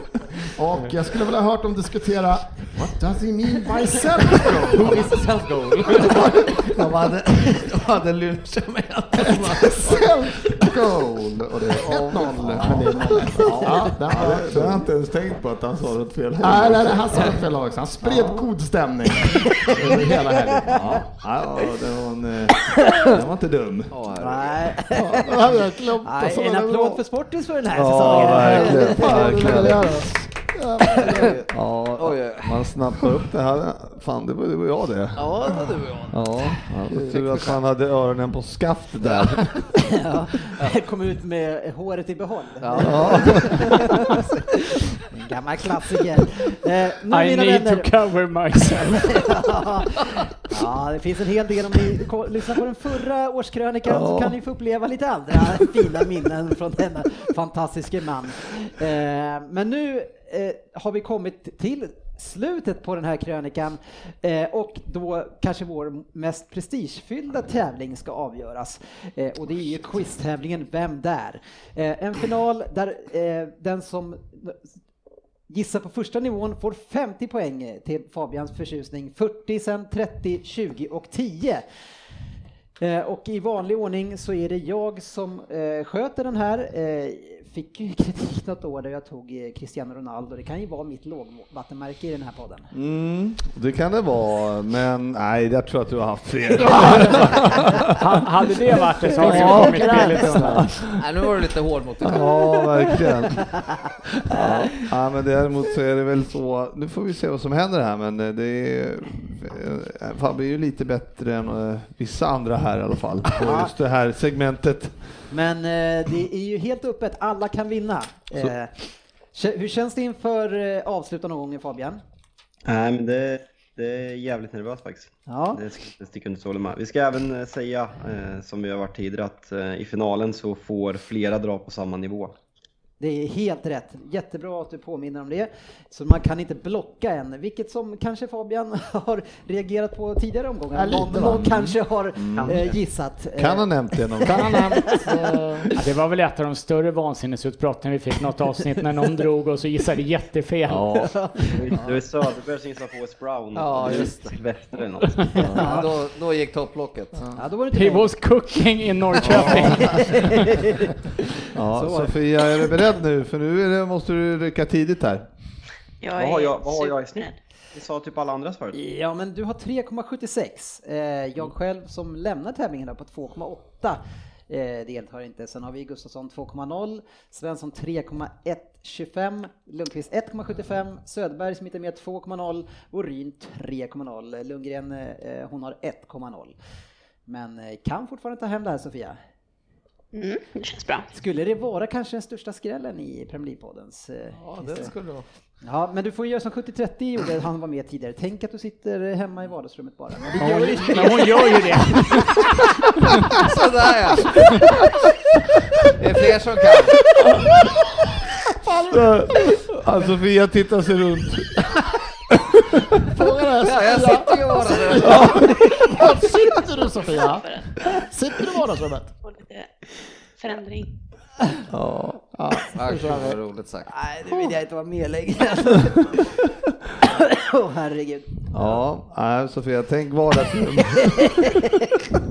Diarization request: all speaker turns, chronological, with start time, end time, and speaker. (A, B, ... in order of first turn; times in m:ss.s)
0:00.5-0:05.2 A
0:03.7-0:10.6 B
0:06.8-0:07.4 C
0:09.2-0:14.9 A
0:11.6-0:17.3 C
0:16.4-0:21.0 A
0:20.6-0:24.0 C
0:23.9-0:24.8 B
0:24.2-0:30.1 D
0:25.0-0:27.0 A
0:27.7-0:30.0 C
0:28.3-0:31.2 A
0:30.9-0:31.2 D
0:31.1-0:32.7 B
0:31.5-0:39.7 C
0:35.2-0:37.6 B
0:39.7-0:44.2 D
0:42.6-0:43.7 B
0:42.8-0:43.7 C
0:45.1-0:47.9 D
0:47.1-0:49.4 E
0:49.2-1:14.7 D
0:53.9-0:54.4 C
1:15.5-1:21.6 D
1:22.8-1:32.7 D
1:32.7-1:38.2 C
1:36.6-1:37.2 E
1:38.0-1:40.8 E
1:38.8-1:41.1 C
1:39.3-1:39.6 D
1:41.0-1:42.9 B
1:42.0-1:43.6 C
1:44.2-1:55.2 C
1:53.4-1:53.7 D
1:55.3-1:58.7 D
1:59.3-2:02.0 D
2:02.7-2:12.3 F
2:05.3-2:05.6 D
2:13.0-2:25.1 D
2:20.7-2:21.6 A
2:21.2-2:22.6 C
2:23.4-2:24.7 C
2:24.2-2:25.7 A
2:25.8-2:31.0 E
2:30.7-2:31.1 C
2:31.0-2:32.0 D
2:31.5-2:35.4 F
2:33.5-2:34.4 B
2:35.4-2:35.8 C
2:35.5-2:37.2 B
2:35.6-2:35.9 D
2:37.4-2:38.2 D
2:37.7-2:40.7 E
2:39.2-2:40.7 D
2:41.5-2:45.3 C
2:41.7-2:42.1 D
2:46.0-2:47.4 G
2:46.2-2:48.8 F
2:48.7-3:06.6 D
3:07.3-3:09.2 D
3:10.1-3:11.1 G
3:11.1-3:14.9 D
3:14.4-3:15.2 B
3:15.6-3:22.2 D
3:20.4-3:22.4 E
3:23.4-3:24.3 B
3:26.0-3:27.0 B
3:28.7-3:29.0 A
3:28.9-3:31.8 C
3:33.1-3:39.1 A
3:33.6-3:35.5 B
3:35.0-3:35.5 C
3:36.2-3:38.0 G
3:39.2-3:40.9 G
3:41.7-3:42.4 C
3:42.3-3:43.4 A
3:42.7-3:43.9 B
3:43.9-3:46.4 D
3:47.0-3:48.8 D
3:48.5-3:51.4 C
3:51.0-3:51.6 D